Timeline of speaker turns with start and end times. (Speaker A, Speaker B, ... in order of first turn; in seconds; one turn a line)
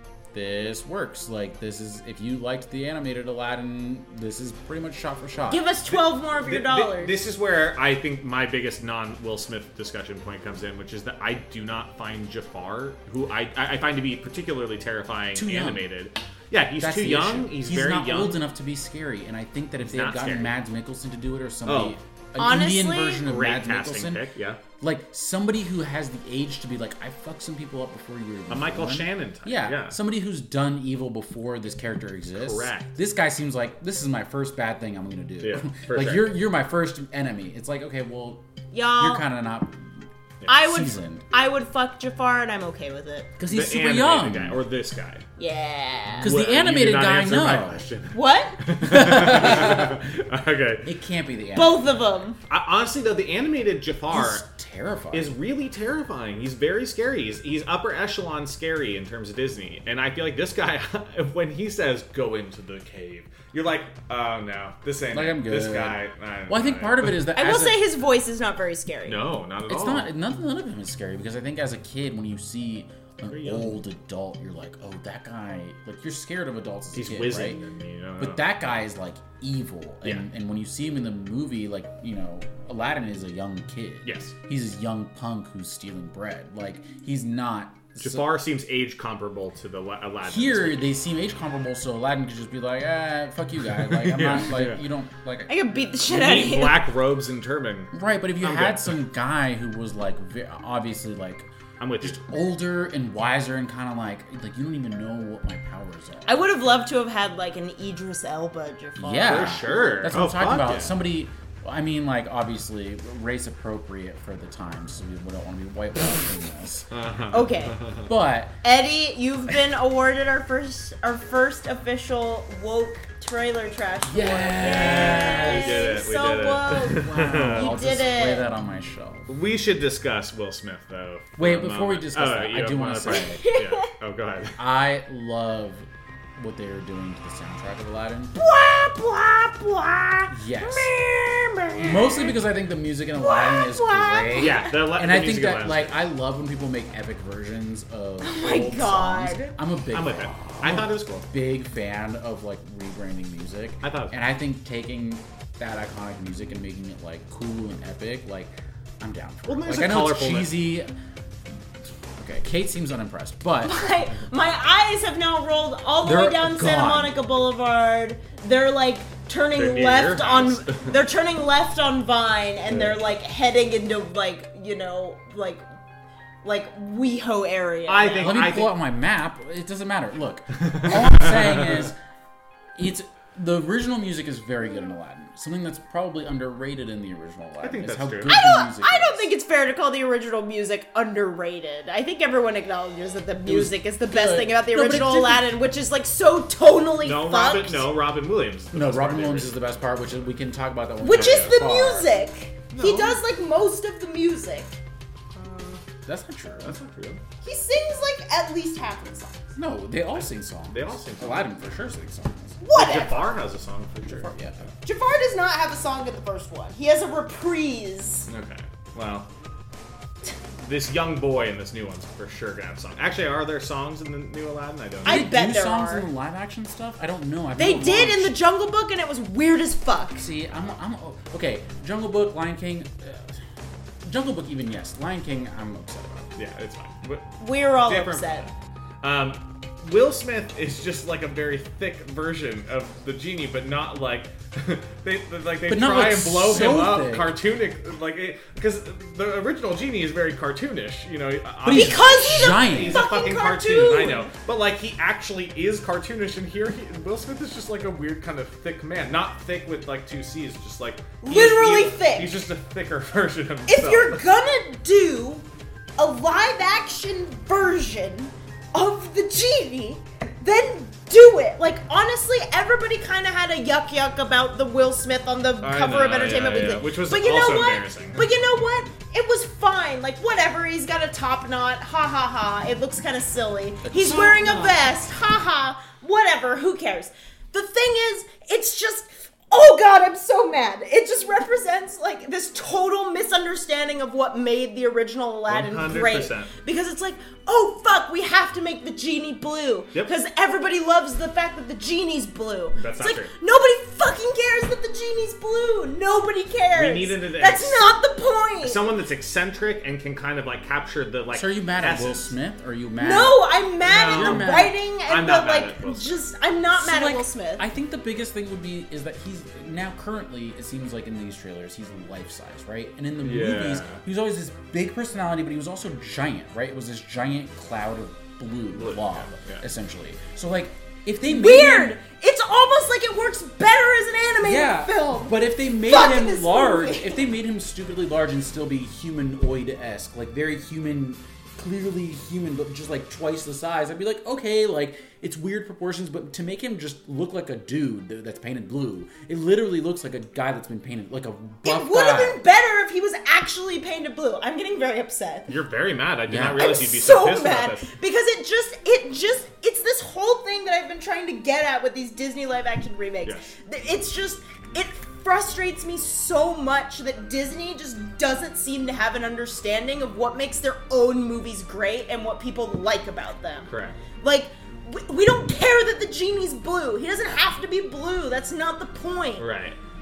Speaker A: 0.3-5.7
Speaker B: 5.5-7.2
Speaker C: 5.9-18.4
Speaker A: 15.3-15.8
Speaker A: 16.8-24.3
Speaker C: 19.8-20.5
Speaker C: 21.6-22.0
Speaker B: 22.4-23.2
Speaker C: 23.2-24.6
Speaker A: 24.8-38.5
Speaker C: 28.5-30.0
Speaker C: 32.3-33.0
Speaker C: 35.4-36.3
Speaker B: 38.7-39.2
Speaker A: 39.0-41.2
Speaker B: 40.5-43.3
Speaker A: 43.4-44.6
Speaker C: 43.5-45.2
Speaker B: 45.4-46.3
Speaker A: 46.2-47.8
Speaker C: 46.2-50.9
Speaker B: 48.1-48.6
Speaker A: 48.8-50.0
Speaker A: 50.8-51.9
Speaker B: 51.5-52.4
Speaker C: 52.5-54.4
Speaker A: 54.1-55.3
Speaker C: 55.1-67.3
Speaker A: 65.1-67.8
Speaker B: 67.3-69.2
Speaker C: 69.0-70.1
Speaker A: 69.7-77.6
Speaker C: 73.2-73.8
Speaker C: 76.9-78.8
Speaker A: 78.2-88.3
Speaker C: 84.0-84.3
Speaker C: 88.0-90.9
Speaker A: 90.2-95.5
Speaker C: 93.7-94.8
Speaker B: 95.5-96.9
Speaker C: 96.1-99.0
Speaker A: 97.9-101.5
Speaker C: 101.8-102.2
Speaker A: 102.0-106.4
Speaker B: 106.2-109.7
Speaker A: 109.0-116.9
Speaker C: 109.2-111.0
Speaker C: 116.9-118.1
Speaker B: 117.3-117.8
Speaker A: 118.1-118.6
Speaker B: 118.6-128.5
Speaker A: 124.1-125.9
Speaker C: 124.6-127.7
Speaker A: 126.8-129.3
Speaker C: 129.3-134.6
Speaker A: 131.4-133.4
Speaker B: 133.1-133.9
Speaker A: 134.6-138.4
Speaker B: 138.3-142.3
Speaker A: 140.3-140.9
Speaker A: 141.8-160.9
Speaker B: 143.2-144.7
Speaker C: 144.4-146.0
Speaker B: 148.2-149.5
Speaker C: 149.9-151.2
Speaker C: 153.8-154.2
Speaker C: 159.5-160.6
Speaker A: 162.1-163.8
Speaker B: 163.6-175.6
Speaker A: 166.0-167.2
Speaker C: 169.5-171.0
Speaker C: 172.7-173.0
Speaker B: 176.4-178.5
Speaker C: 177.9-178.8
Speaker A: 178.2-182.0
Speaker C: 180.7-181.9
Speaker A: 182.8-189.3
Speaker C: 187.6-188.3
Speaker B: 188.3-197.9
Speaker A: 193.4-195.5
Speaker C: 197.0-199.9
Speaker A: 198.7-202.1
Speaker B: 201.0-204.8
Speaker C: 201.1-201.5
Speaker C: 202.7-203.2
Speaker C: 205.3-205.8
Speaker A: 206.1-206.8
Speaker C: 206.6-207.2
Speaker B: 207.4-209.4
Speaker A: 209.5-212.6
Speaker C: 210.1-211.5
Speaker B: 212.6-213.4
Speaker C: 212.7-214.7
Speaker A: 214.1-214.6
Speaker B: 214.8-218.3
Speaker C: 218.3-219.3
Speaker C: 220.6-225.2
Speaker B: 225.0-226.1
Speaker A: 225.0-228.4
Speaker B: 227.6-230.3
Speaker A: 230.2-233.4
Speaker A: 234.0-236.3
Speaker C: 236.3-264.2
Speaker B: 237.4-238.5
Speaker A: 245.7-247.3
Speaker A: 251.6-253.1
Speaker B: 251.7-254.3
Speaker B: 261.2-262.4
Speaker B: 263.7-265.4
Speaker B: 266.0-308.9
Speaker C: 275.6-278.3
Speaker A: 283.8-284.8
Speaker C: 295.5-296.5
Speaker C: 302.7-303.3
Speaker C: 306.7-307.9
Speaker C: 308.6-312.3
Speaker A: 311.3-314.8
Speaker B: 313.0-317.6
Speaker C: 313.8-316.1
Speaker A: 316.7-332.0
Speaker C: 323.2-324.0
Speaker C: 328.7-329.6
Speaker B: 331.2-335.4
Speaker A: 334.4-352.4
Speaker B: 335.9-337.2
Speaker B: 351.6-355.5
Speaker C: 355.5-357.9
Speaker A: 356.3-356.7
Speaker B: 356.6-379.5
Speaker C: 363.2-363.5
Speaker C: 373.7-374.0
Speaker C: 379.4-379.8